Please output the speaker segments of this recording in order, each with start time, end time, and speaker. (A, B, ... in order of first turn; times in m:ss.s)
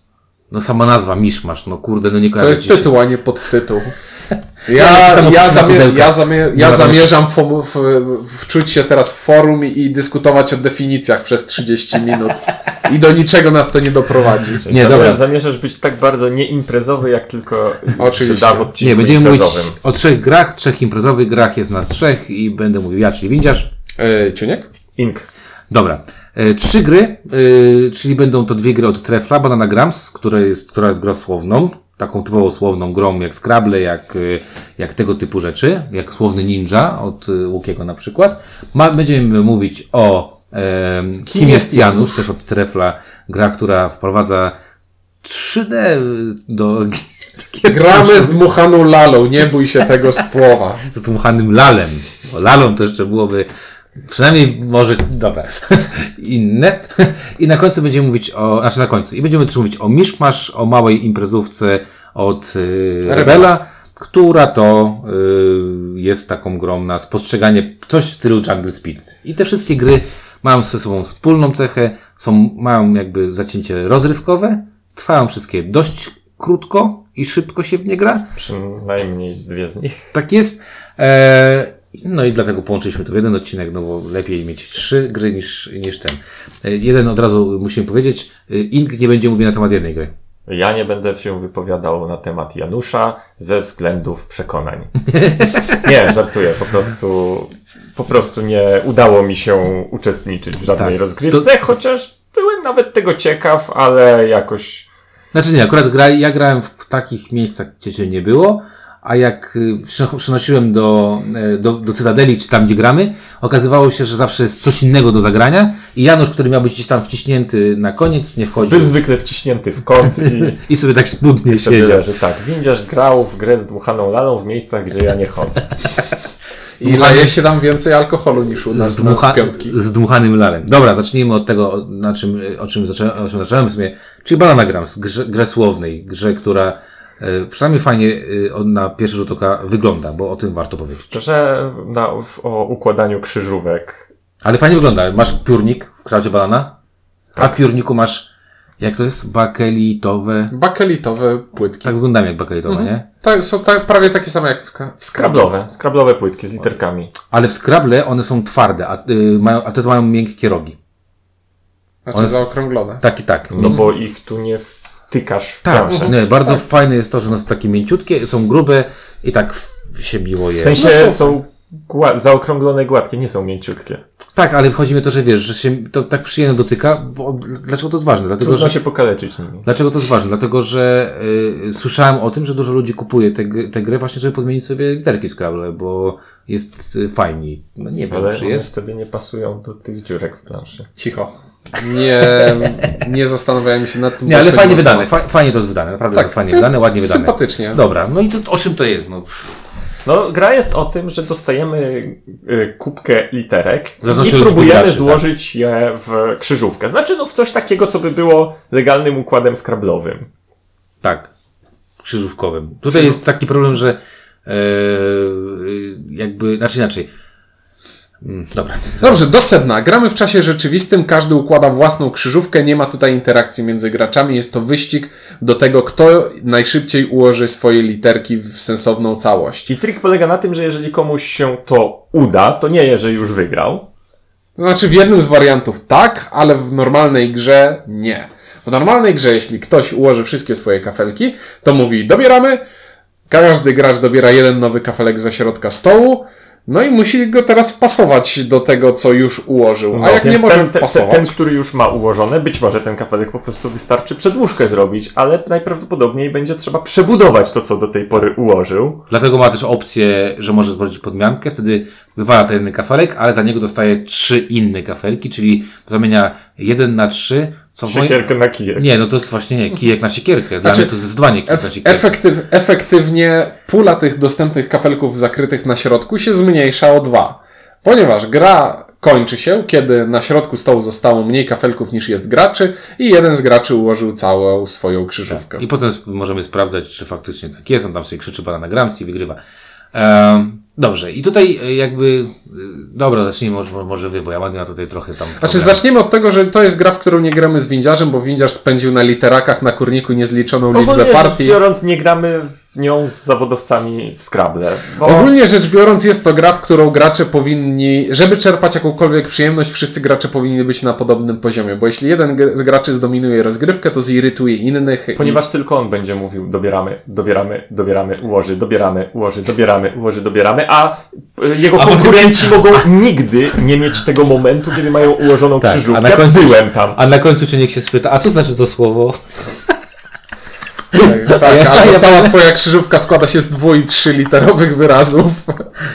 0:00.5-0:02.9 A
0:02.4-0:03.9 B
0:04.7-0:14.6 B
0:04.7-0:07.1 A
0:14.6-0:19.8 C
0:14.7-0:15.2 A
0:18.0-0:18.7 B
0:18.8-0:23.7 A
0:24.0-0:24.7 B
0:25.0-0:25.3 C
0:25.7-0:44.6 A
0:41.3-0:42.2 B
0:45.2-0:48.4 A
0:47.7-0:50.9 B
0:50.9-0:53.5 A
0:54.0-1:18.3 A
1:03.1-1:03.5 B
1:18.4-1:20.1 C
1:20.1-1:30.1 A
1:30.5-1:34.9 C
1:35.1-1:35.9 A
1:35.8-1:44.9 C
1:40.8-1:41.4 A
1:45.3-1:59.0 A
1:58.6-2:00.6 C
2:00.2-2:02.1 A
2:01.5-2:05.7 C
2:06.8-2:07.3 A
2:06.8-2:09.8 B
2:08.7-2:21.2 A
2:21.1-2:24.1 C
2:24.4-2:26.8 A
2:27.4-2:28.3 A
2:28.8-2:30.5 A
2:30.5-2:31.9 B
2:31.8-2:33.0 A
2:32.6-2:35.5 B
2:35.2-2:37.1 C
2:37.3-2:40.8 A
2:42.1-2:43.0 B
2:42.1-2:42.4 A
2:43.0-2:43.8 A
2:43.5-2:46.2 C
2:45.6-2:50.8 A
2:50.6-2:54.0 C
2:50.7-2:51.4 B
2:54.4-2:58.8 A
2:58.4-2:59.7 C
2:59.6-3:08.7 A
3:08.1-3:10.9 C
3:11.0-3:15.1 B
3:12.4-3:13.0 A
3:14.2-3:19.5 A
3:16.1-3:17.8 B
3:20.0-3:30.3 C
3:24.0-3:25.2 A
3:31.0-3:31.3 A
3:32.0-3:37.1 A
3:38.2-3:39.3 A
3:39.0-3:49.7 B
3:49.7-3:53.9 C
3:54.6-4:02.6 B
4:03.3-4:11.3 B
4:09.9-4:19.0 C
4:19.1-4:32.1 A
4:27.9-4:28.9 C
4:30.6-4:30.9 B
4:31.5-4:45.6 B
4:45.3-4:49.4 A
4:49.9-4:55.8 A
4:55.4-5:01.6 B
5:00.7-5:05.3 C
5:05.0-5:15.4 B
5:15.2-5:27.0 C
5:21.8-5:22.8 A
5:25.6-5:29.8 A
5:30.9-5:32.4 A
5:31.0-5:35.7 B